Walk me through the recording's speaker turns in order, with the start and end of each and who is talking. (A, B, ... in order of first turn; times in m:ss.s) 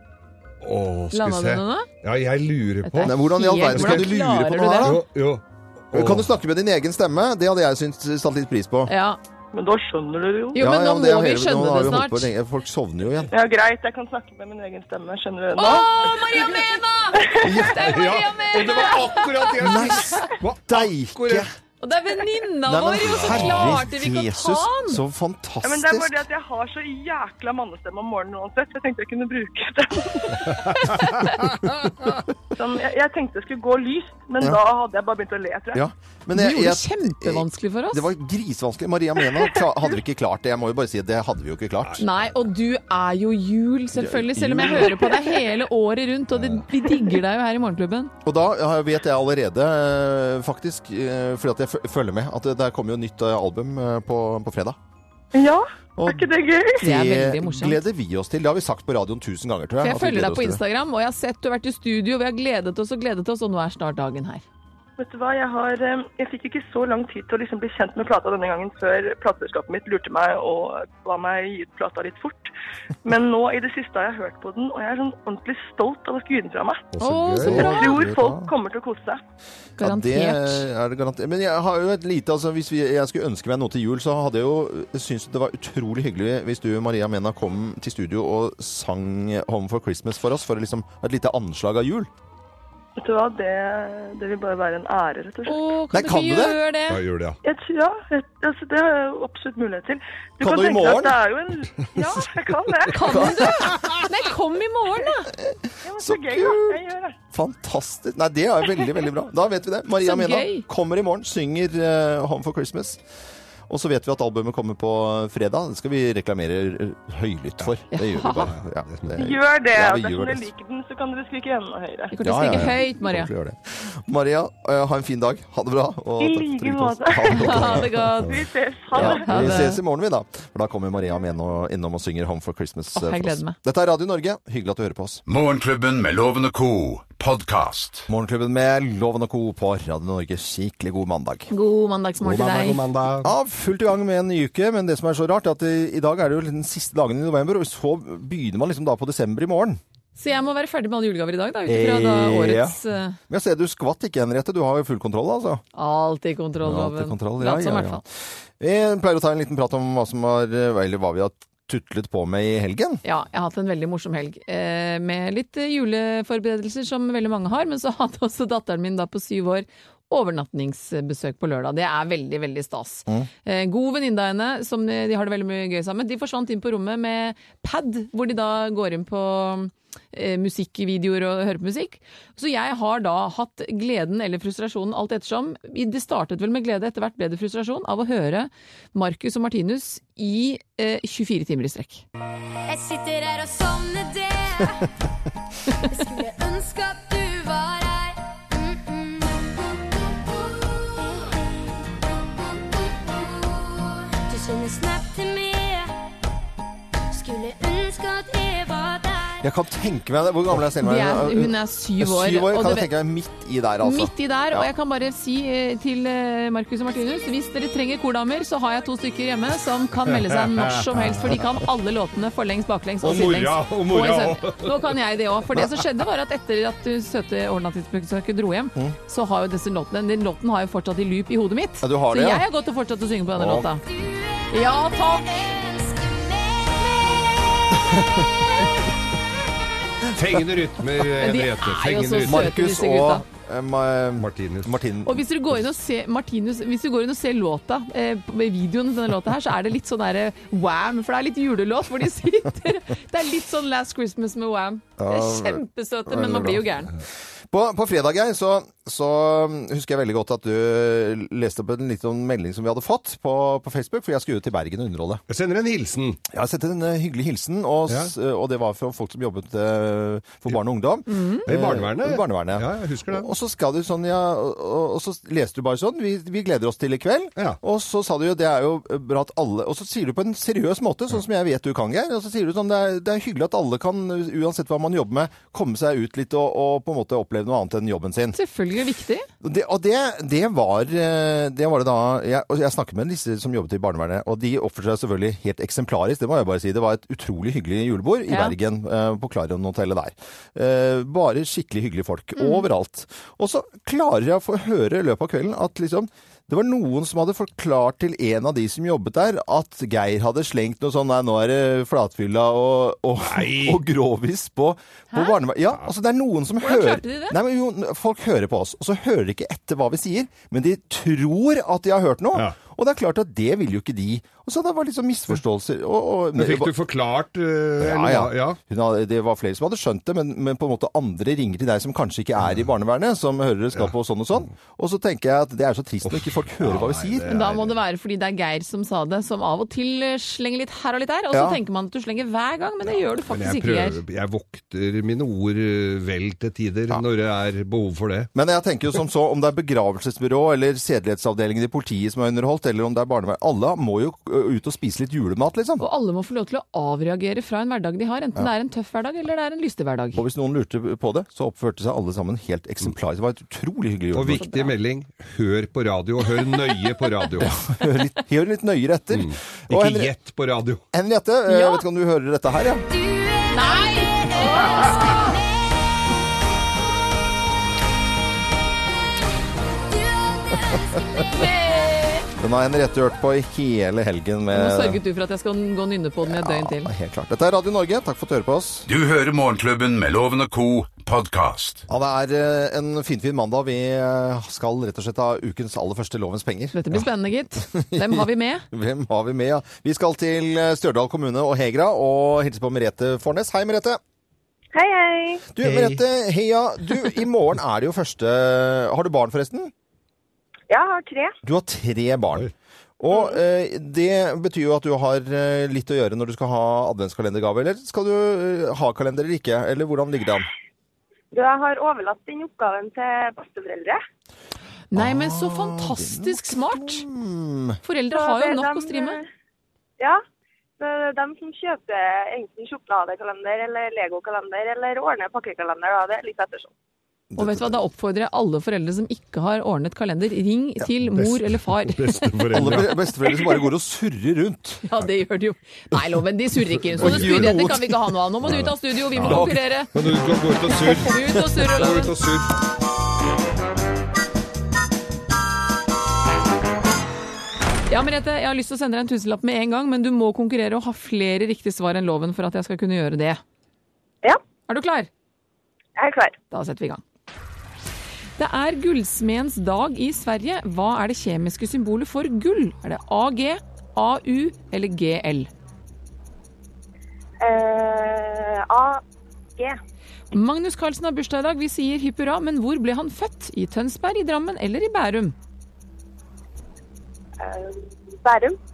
0:00.6-0:03.2 A
0:01.1-0:01.9 B
0:02.8-0:05.0 B
0:03.0-0:05.0 C
0:03.7-0:04.1 A
0:04.8-0:06.3 A
0:05.9-0:08.9 C
0:08.9-0:09.2 B
0:09.5-0:10.6 D
0:10.6-0:12.3 B
0:10.6-0:13.3 C
0:13.3-0:17.5 D
0:15.6-0:20.3 B
0:17.4-0:18.0 C
0:17.8-0:21.5 A
0:19.6-0:21.5 C
0:21.8-0:25.0 B
0:22.6-0:26.2 C
0:23.2-0:23.8 A
0:25.6-0:30.7 D
0:30.7-0:31.7 A
0:32.6-0:35.8 D
0:35.7-0:42.0 C
0:36.3-0:38.1 B
0:42.0-0:48.1 B
0:44.0-0:45.0 C
0:48.2-0:54.8 C
0:55.3-0:56.8 D
0:56.0-1:00.6 C
0:56.8-0:57.8 B
0:59.8-1:04.4 B
1:05.0-1:12.5 D
1:13.0-1:16.9 D
1:16.9-1:17.7 A
1:17.0-1:18.0 B
1:17.4-1:18.5 C
1:17.5-1:19.2 D
1:19.8-1:20.7 B
1:19.8-1:32.1 C
1:33.0-1:35.7 D
1:35.5-1:37.0 B
1:35.9-1:36.6 C
1:36.9-1:37.4 A
1:37.4-1:43.3 D
1:40.4-1:41.2 C
1:42.9-1:45.3 B
1:43.1-1:43.7 C
1:43.7-1:44.0 A
1:45.3-1:53.0 C
1:45.8-1:47.2 D
1:50.0-1:50.7 B
1:53.7-2:00.5 C
1:57.9-1:58.5 B
1:58.4-1:59.3 A
1:59.2-2:02.1 D
2:02.1-2:03.3 B
2:02.2-2:08.0 C
2:06.3-2:07.6 D
2:07.3-2:08.4 B
2:08.3-2:09.5 D
2:08.9-2:15.2 C
2:09.0-2:09.8 B
2:13.0-2:13.6 B
2:15.3-2:18.1 E
2:18.1-2:21.5 C
2:21.5-2:22.8 B
2:22.2-2:23.3 A
2:23.2-2:29.8 C
2:30.2-2:33.2 B
2:31.7-2:35.6 C
2:35.8-2:38.0 B
2:36.6-2:38.1 C
2:38.6-2:43.0 C
2:43.0-3:12.0 B
3:12.7-3:14.8 F
3:15.9-3:20.0 F
3:20.7-3:21.4 F
3:22.2-3:25.9 F
3:27.1-3:29.3 F
3:29.4-3:34.7 C
3:30.8-3:32.9 B
3:33.8-3:53.8 B
3:40.2-3:41.4 A
3:43.0-3:45.0 A
3:51.8-3:52.5 C
3:53.4-3:53.7 C
3:54.4-3:57.3 F
3:54.5-3:55.5 B
4:00.1-4:02.5 A
4:01.2-4:03.2 B
4:02.2-4:05.2 C
4:04.2-4:04.7 A
4:05.0-4:16.9 B
4:15.0-4:16.7 C
4:17.5-4:25.2 C
4:25.3-4:26.2 A
4:26.3-4:48.4 C
4:31.1-4:31.5 B
4:31.5-4:33.3 A
4:48.3-4:49.3 B
4:49.4-5:26.7 C
4:58.3-4:58.6 B
5:02.4-5:02.6 B
5:13.2-5:13.8 A
5:16.6-5:17.4 B
5:26.4-5:28.6 A
5:27.8-5:37.3 C
5:36.0-5:37.7 A
5:37.3-5:44.0 B
5:41.3-5:41.6 C
5:43.3-5:48.3 A
5:48.4-5:55.9 C
5:55.8-6:00.2 B
6:00.2-6:04.4 C
6:04.1-6:07.6 A
6:04.4-6:04.7 B
6:07.4-6:10.1 C
6:09.1-6:10.8 A
6:10.9-6:12.9 C
6:11.5-6:11.8 B
6:13.5-6:15.3 B
6:21.2-6:22.3 B
6:22.4-6:25.0 C
6:24.5-6:26.9 B
6:26.2-6:28.9 C
6:28.9-6:31.8 E
6:31.9-6:37.0 C
6:36.7-6:38.7 B
6:37.7-6:44.0 C
6:44.7-6:45.5 G
6:45.6-6:49.7 C
6:45.6-6:46.0 A
6:50.7-6:51.3 G
6:51.4-6:52.5 C
6:53.0-7:00.5 C
7:01.3-7:04.0 G
7:04.9-7:07.1 B
7:05.0-7:07.8 C
7:07.8-7:09.2 B
7:08.1-7:09.3 G
7:10.8-7:16.7 G
7:17.3-7:17.8 C
7:17.4-7:22.3 B
7:21.1-7:23.0 A
7:22.5-7:24.9 C
7:24.9-7:29.9 B
7:27.0-7:27.6 A
7:27.0-7:29.6 C
7:29.2-7:32.5 A
7:31.0-7:32.1 B
7:37.9-7:43.4 B
7:44.7-7:45.1 B
7:46.0-7:46.4 G
7:46.5-7:47.0 B
7:48.4-7:55.5 B
7:57.4-7:59.0 G
8:00.3-8:05.4 B
8:07.4-8:08.6 G